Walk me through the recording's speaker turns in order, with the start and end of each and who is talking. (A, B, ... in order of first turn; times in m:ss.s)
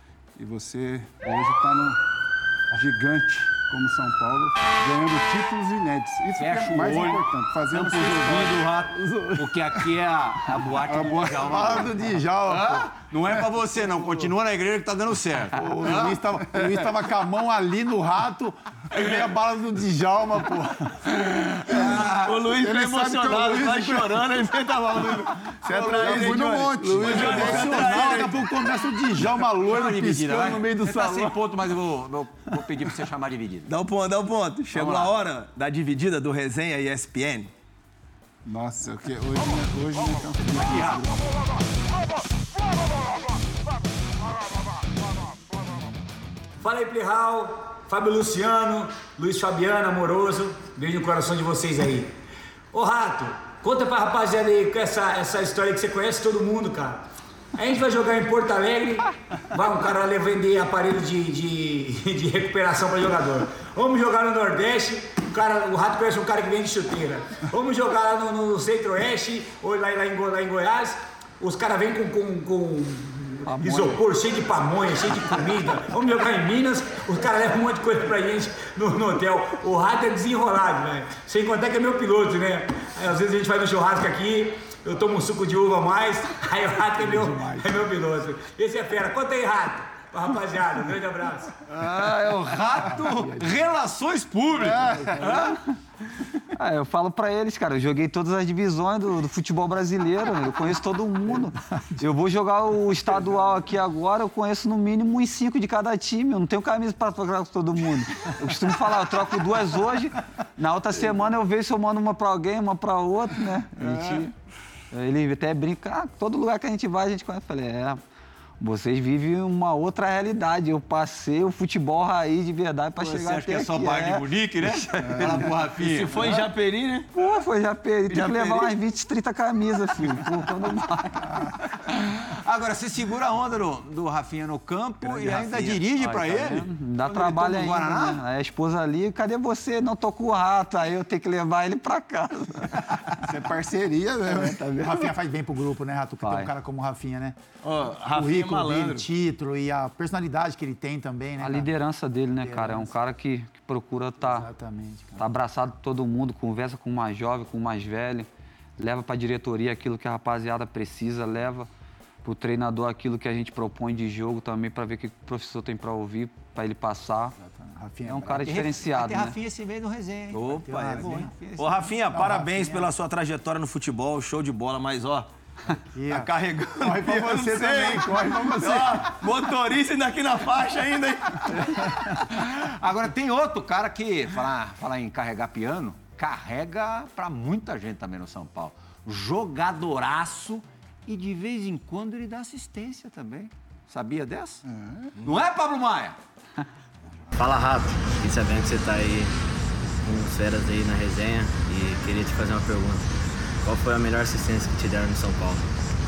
0:00.4-0:02.0 A
0:02.7-0:08.8 A
0:06.4-0:16.2 B
0:09.0-0:09.5 C
0:10.8-0:11.9 A
0:11.4-0:12.9 C
0:13.8-0:14.1 C
0:15.5-0:21.1 C
0:16.6-0:16.8 A
0:21.2-0:22.3 B
0:21.7-0:22.1 C
0:22.1-0:28.5 D
0:22.5-0:24.0 A
0:23.6-0:31.4 C
0:25.8-0:28.0 A
0:29.6-0:33.7 B
0:32.5-0:32.9 C
0:33.7-0:37.5 D
0:34.7-0:35.2 B
0:38.4-0:41.4 A
0:40.5-0:41.1 B
0:46.6-0:52.1 E
0:52.7-0:57.0 E
0:57.6-1:31.6 E
1:13.4-1:14.0 F
1:27.0-1:27.8 C
1:31.7-1:35.6 B
1:32.8-1:33.6 C
1:34.6-1:35.5 C
1:36.5-1:54.3 F
1:53.8-1:54.3 B
1:54.9-1:58.0 F
1:58.6-2:05.5 F
2:03.0-2:06.2 B
2:05.8-2:07.1 D
2:07.1-2:11.5 F
2:08.1-2:08.7 D
2:11.9-2:18.2 B
2:15.0-2:15.8 D
2:15.9-2:23.2 F
2:23.2-2:24.6 A
2:24.3-2:25.1 F
2:24.8-2:27.4 C
2:26.2-2:26.5 F
2:27.6-2:29.1 D
2:28.0-2:31.7 C
2:31.4-2:34.5 F
2:32.4-2:33.0 C
2:34.2-2:35.3 C
2:35.2-2:41.7 F
2:42.2-2:47.4 F
2:47.4-2:48.5 C
2:48.0-2:49.4 F
2:48.4-2:52.0 B
2:50.3-2:55.3 D
2:50.5-2:51.3 C
2:52.1-2:52.9 C
2:55.7-2:59.2 C
2:56.1-3:01.9 D
3:02.1-3:14.6 B
3:14.7-3:15.1 A
3:15.2-3:16.2 B
3:17.4-3:19.4 G
3:20.0-3:25.7 G